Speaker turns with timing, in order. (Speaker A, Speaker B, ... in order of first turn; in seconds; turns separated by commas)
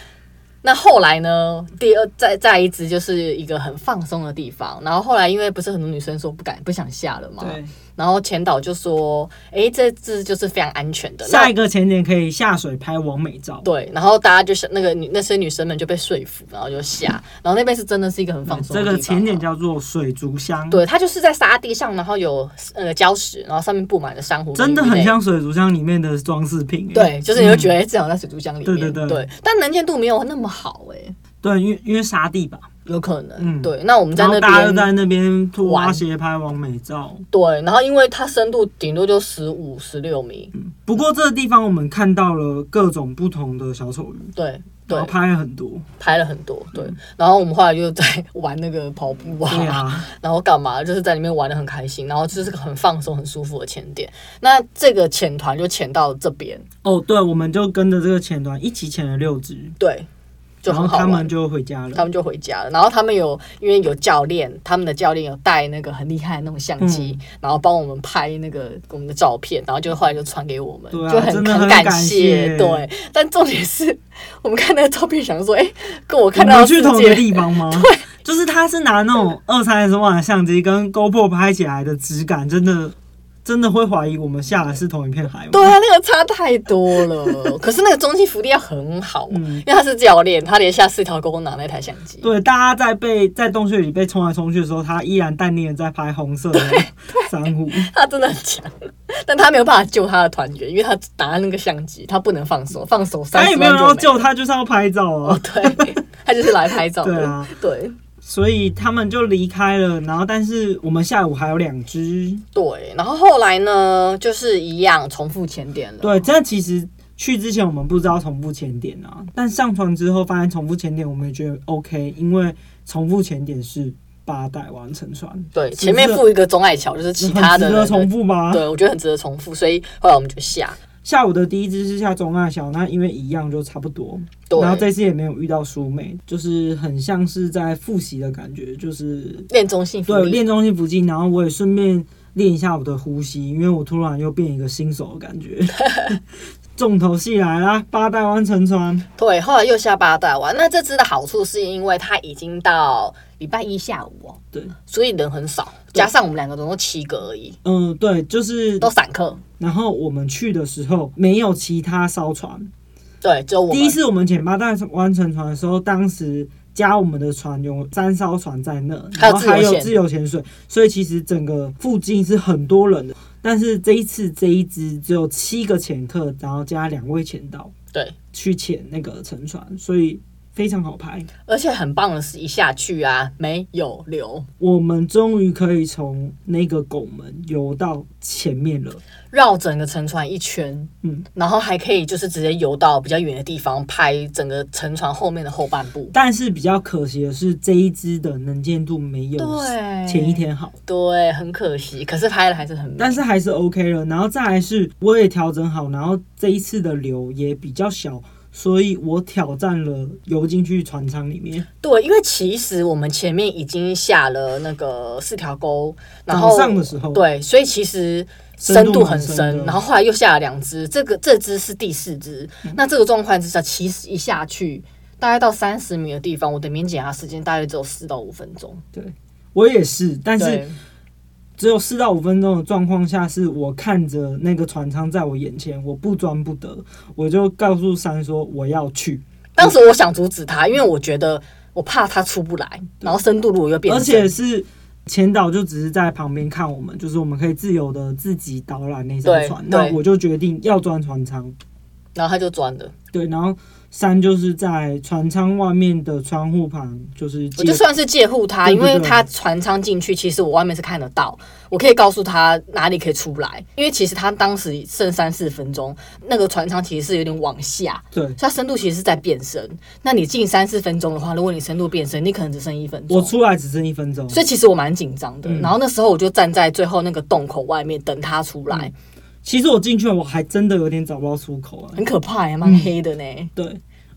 Speaker A: 0.6-11.5, Speaker B: 7.4-7.7, Speaker B: 11.2-13.7, Speaker A: 13.6-19.4, Speaker B: 18.5-20.8, Speaker A: 20.7-25.2, Speaker B: 24.6-27.7, Speaker A: 26.9-31.1, Speaker B: 28.6-29.2, Speaker B: 31.4-32.7, Speaker A: 32.9-34.9, Speaker B: 33.4-37.2, Speaker A: 35.6-36.0, Speaker A: 37.3-40.5, Speaker B: 40.5-44.3, Speaker A: 44.4-45.1, Speaker B: 44.9-45.9, Speaker A: 46.0-56.7, Speaker B: 49.5-50.1, Speaker B: 56.8-59.8, Speaker A: 59.8-60.1, Speaker A: 60.6-61.3, Speaker B: 60.7-62.1, Speaker A: 62.0-78.0, Speaker B: 66.8-67.2, Speaker B: 70.9-72.9, Speaker B: 76.3-85.7, Speaker A: 85.5-92.3, Speaker B: 89.3-89.7, Speaker B: 92.2-97.9, Speaker A: 96.6-97.2, Speaker A: 97.7-104.3, Speaker B: 103.3-106.0, Speaker A: 105.2-108.0, Speaker B: 107.0-107.5, Speaker B: 108.2-112.4, Speaker A: 112.5-116.3, Speaker B: 116.0-126.2, Speaker A: 125.5-130.8, Speaker B: 127.2-128.7, Speaker B: 131.0-139.5, Speaker A: 134.5-134.9, Speaker A: 139.5-140.4, Speaker B: 140.1-149.1, Speaker A: 145.8-146.2, Speaker A: 149.2-157.6, Speaker B: 157.6-158.9, Speaker A: 158.8-159.4, Speaker B: 159.6-162.7, Speaker A: 163.2-164.0, Speaker B: 163.7-177.7, Speaker A: 169.2-169.9, Speaker B: 178.3-181.3, Speaker A: 181.5-184.5, Speaker B: 184.6-189.0, Speaker A: 189.3-196.1, Speaker B: 196.1-200.8, Speaker A: 199.4-203.2, Speaker B: 203.0-211.7, Speaker A: 211.8-228.8, Speaker B: 216.3-217.2, Speaker B: 218.6-219.8, Speaker B: 228.9-230.6, Speaker A: 230.4-230.8, Speaker B: 231.6-239.8, Speaker A: 239.6-244.3, Speaker B: 243.9-251.6, Speaker A: 249.2-250.0, Speaker A: 252.2-252.9, Speaker B: 253.1-257.8, Speaker A: 257.6-273.3, Speaker B: 258.6-259.2, Speaker B: 273.1-274.4, Speaker A: 274.3-278.9, Speaker B: 275.4-275.7, Speaker B: 279.4-282.0, Speaker A: 282.0-283.5, Speaker B: 282.6-282.9